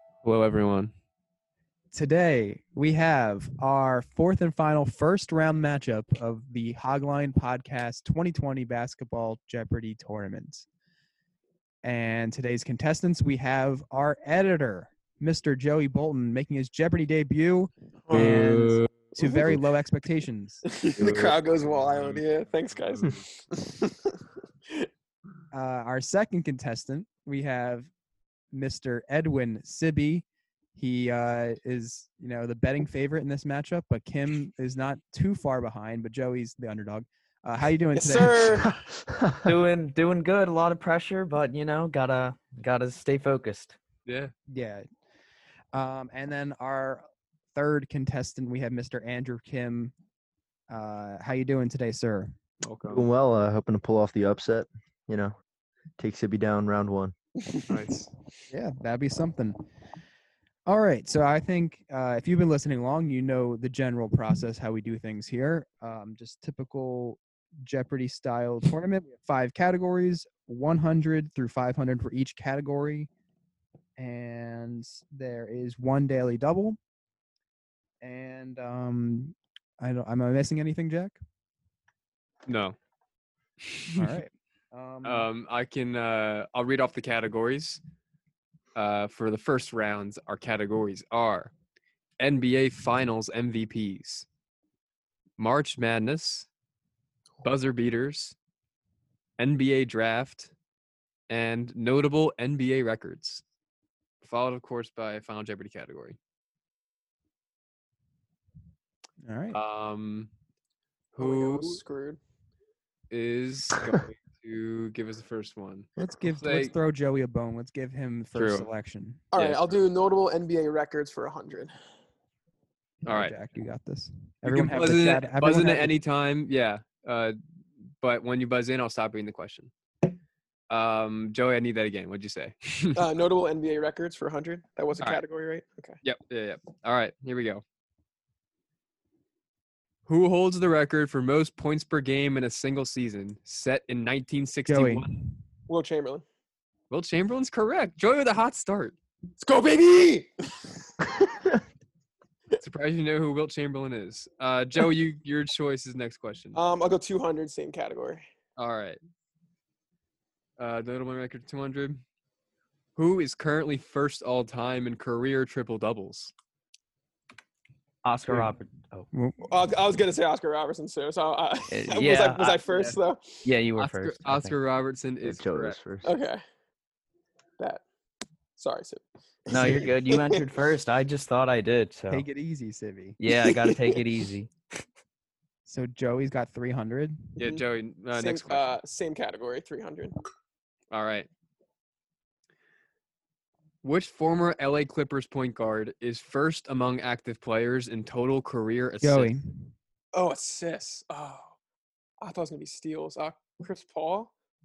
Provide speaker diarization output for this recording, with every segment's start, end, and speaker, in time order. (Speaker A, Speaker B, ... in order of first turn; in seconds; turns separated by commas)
Speaker A: 0.2-0.9, Speaker B: 1.9-10.7, Speaker B: 11.8-20.6, Speaker C: 18.1-18.5, Speaker A: 18.1-19.6, Speaker C: 20.6-24.9, Speaker A: 21.0-22.2, Speaker A: 22.8-23.2, Speaker B: 25.5-27.9, Speaker B: 28.5-38.6, Speaker C: 37.9-38.8, Speaker D: 39.1-39.5, Speaker E: 39.4-43.8, Speaker A: 44.0-44.3, Speaker B: 44.5-44.9, Speaker B: 45.7-49.9, Speaker B: 50.7-52.3, Speaker A: 52.6-53.0, Speaker D: 52.9-55.3, Speaker D: 56.0-57.1, Speaker A: 57.7-58.1, Speaker B: 58.5-59.6, Speaker B: 60.6-73.1, Speaker B: 74.0-76.8, Speaker B: 78.0-81.2, Speaker A: 82.5-82.8, Speaker A: 83.7-84.2, Speaker B: 83.9-85.3, Speaker A: 85.0-87.8, Speaker A: 88.7-91.5, Speaker A: 92.2-94.2, Speaker A: 95.4-96.5, Speaker A: 97.4-98.3, Speaker A: 99.4-100.5, Speaker A: 101.3-103.4, Speaker A: 104.2-106.2, Speaker B: 109.2-109.6, Speaker A: 109.5-110.3, Speaker A: 111.1-111.8, Speaker C: 111.2-112.2, Speaker A: 113.1-116.7, Speaker B: 116.0-119.2, Speaker A: 118.3-118.7, Speaker C: 119.3-121.7, Speaker A: 119.3-119.8, Speaker B: 123.0-126.0, Speaker A: 123.0-123.3, Speaker A: 124.4-127.3, Speaker A: 128.0-129.7, Speaker A: 130.7-133.1, Speaker C: 132.9-136.0, Speaker A: 136.0-137.6, Speaker A: 140.1-145.1, Speaker B: 144.7-145.4, Speaker C: 145.7-146.2, Speaker A: 146.9-148.9, Speaker C: 149.4-150.7, Speaker A: 152.6-156.6, Speaker C: 156.5-158.2, Speaker A: 158.6-159.0, Speaker A: 160.6-162.0, Speaker A: 162.9-166.3, Speaker E: 168.0-169.1, Speaker B: 169.1-169.4, Speaker C: 169.4-173.4, Speaker E: 171.7-172.6, Speaker A: 172.7-173.0, Speaker E: 173.4-174.6, Speaker A: 173.8-175.8, Speaker D: 175.2-176.1, Speaker C: 176.0-176.4, Speaker C: 177.6-177.8, Speaker C: 178.6-180.4, Speaker E: 179.5-182.2, Speaker B: 182.1-183.2, Speaker E: 183.2-184.5, Speaker C: 183.4-184.0, Speaker B: 185.7-187.4, Speaker A: 187.4-188.8, Speaker C: 187.4-190.1, Speaker A: 190.9-191.3, Speaker A: 193.8-199.3, Speaker B: 199.0-199.7, Speaker C: 200.1-201.5, Speaker C: 202.2-204.3